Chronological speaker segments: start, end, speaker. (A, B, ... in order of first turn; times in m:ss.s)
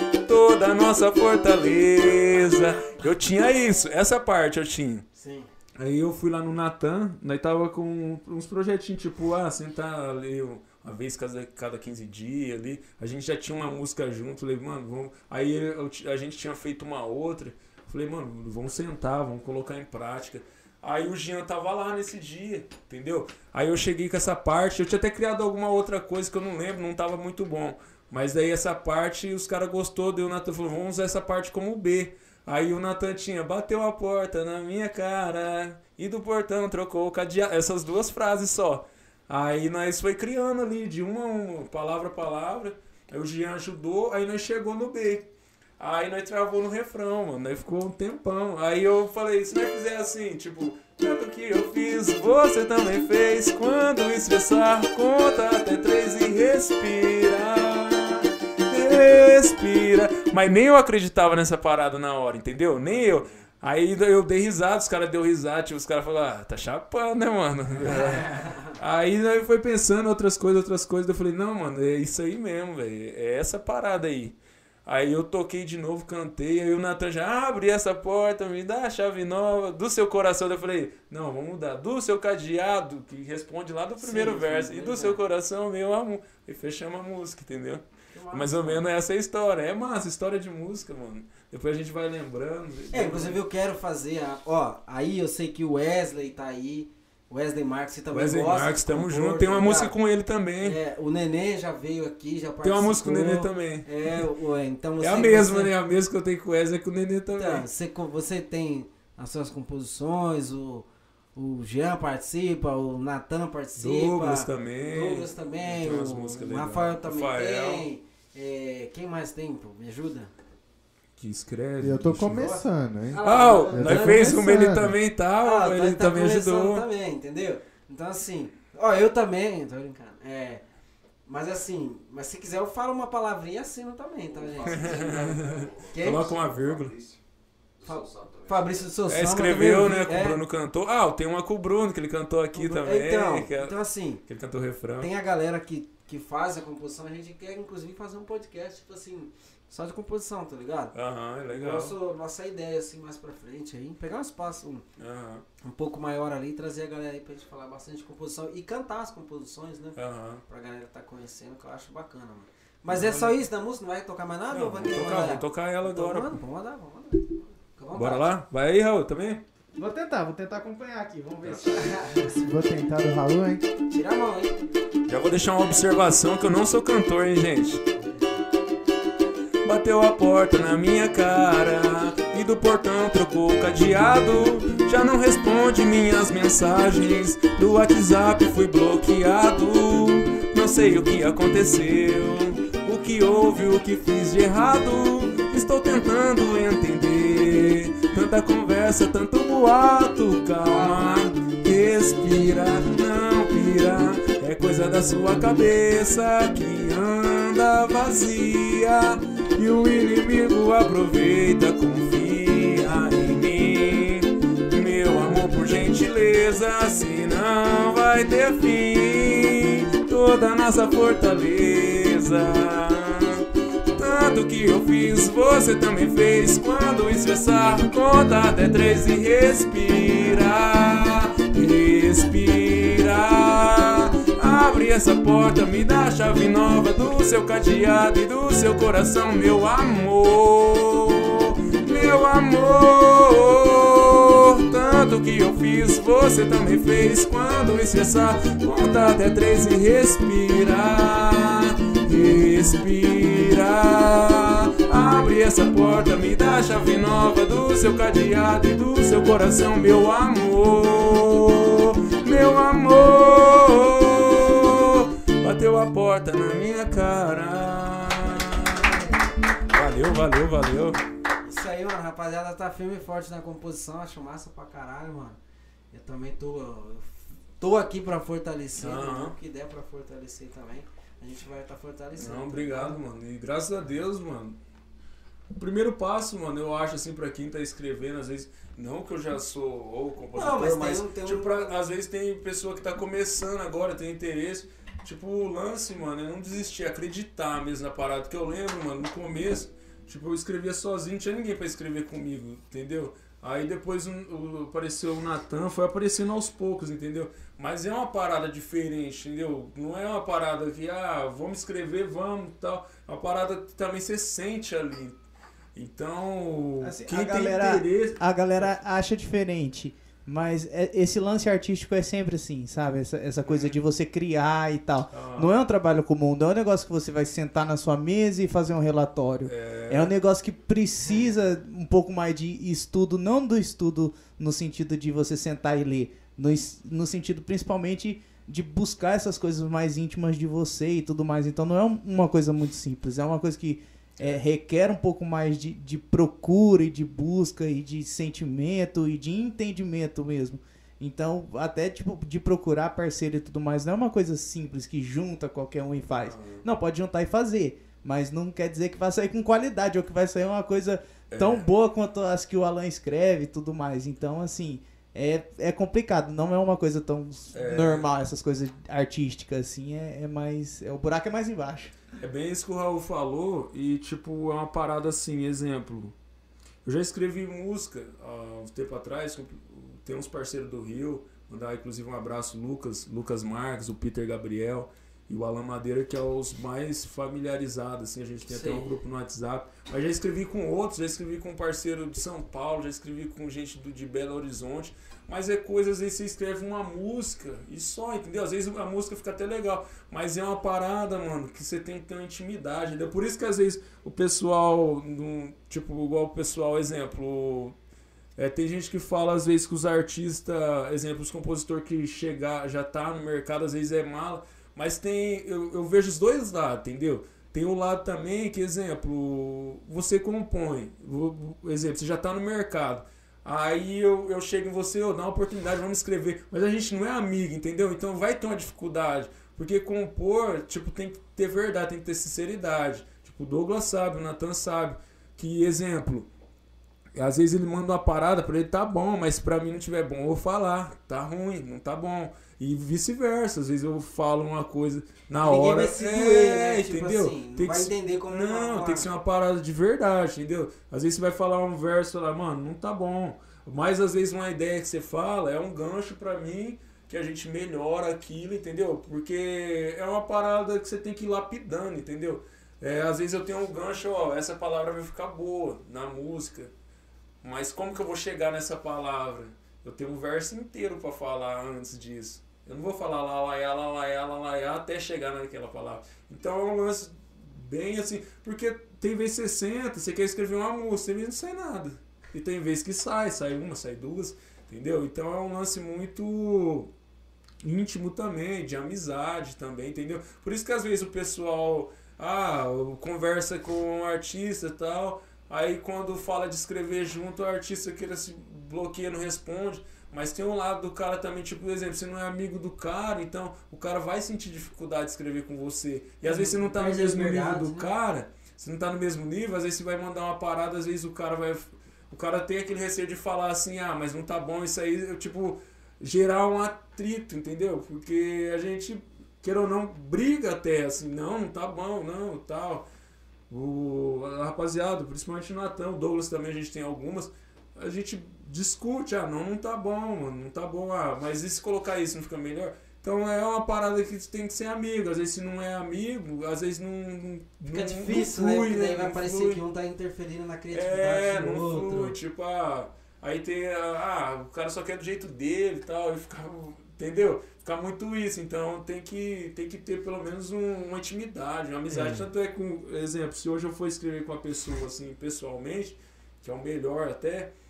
0:00.2-0:05.0 A
0:05.1-0:05.5 B
0:05.8-1:33.4 A
1:02.9-1:03.4 B
1:07.8-1:08.7 B
1:24.0-1:25.2 B
1:28.1-1:28.9 B
1:32.9-1:39.9 B
1:38.1-1:40.8 A
1:40.6-1:45.7 B
1:42.6-1:44.2 A
1:45.0-1:47.6 A
1:47.3-2:00.3 B
1:53.8-1:57.9 A
2:01.2-2:02.5 A
2:01.8-2:04.9 C
2:02.2-2:04.4 B
2:03.2-2:06.8 A
2:05.4-2:10.6 B
2:11.2-2:16.3 B
2:14.3-2:17.2 D
2:14.6-2:16.9 A
2:17.8-2:18.9 D
2:17.8-2:20.4 B
2:19.1-2:25.1 A
2:22.5-2:24.2 B
2:25.0-2:30.9 B
2:30.9-2:31.9 A
2:31.5-2:34.8 B
2:35.0-2:35.4 A
2:35.6-2:48.3 B
2:40.0-2:40.4 A
2:42.9-2:43.4 A
2:44.5-2:46.4 A
2:47.9-2:49.4 A
2:49.8-2:52.3 E
2:51.6-2:52.5 B
2:52.2-2:53.6 C
2:53.9-2:54.6 B
2:55.1-2:57.8 A
2:59.6-4:31.0 A
3:20.6-3:21.3 B
4:31.4-4:35.4 B
4:35.9-4:43.0 B
4:38.8-4:39.3 A
4:42.2-4:44.6 A
4:45.5-5:15.2 A
4:50.3-4:51.7 B
5:15.8-5:18.8 A
5:16.8-6:11.9 E
5:23.4-5:23.8 A
5:25.1-5:25.5 A
5:29.4-5:30.1 A
5:31.0-5:31.3 B
5:56.2-5:56.6 A
6:01.3-6:01.7 A
6:07.5-6:08.1 A
6:12.2-6:16.1 A
6:16.8-6:47.7 A
6:28.5-6:28.9 B
6:48.4-7:16.3 A
7:17.1-7:46.7 A
7:25.4-7:29.1 B
7:47.4-8:06.9 A
8:07.6-8:42.9 A
8:26.2-8:27.9 B
8:43.5-8:59.6 A
8:57.7-9:02.2 B
9:00.7-9:17.5 A
9:11.9-9:12.3 B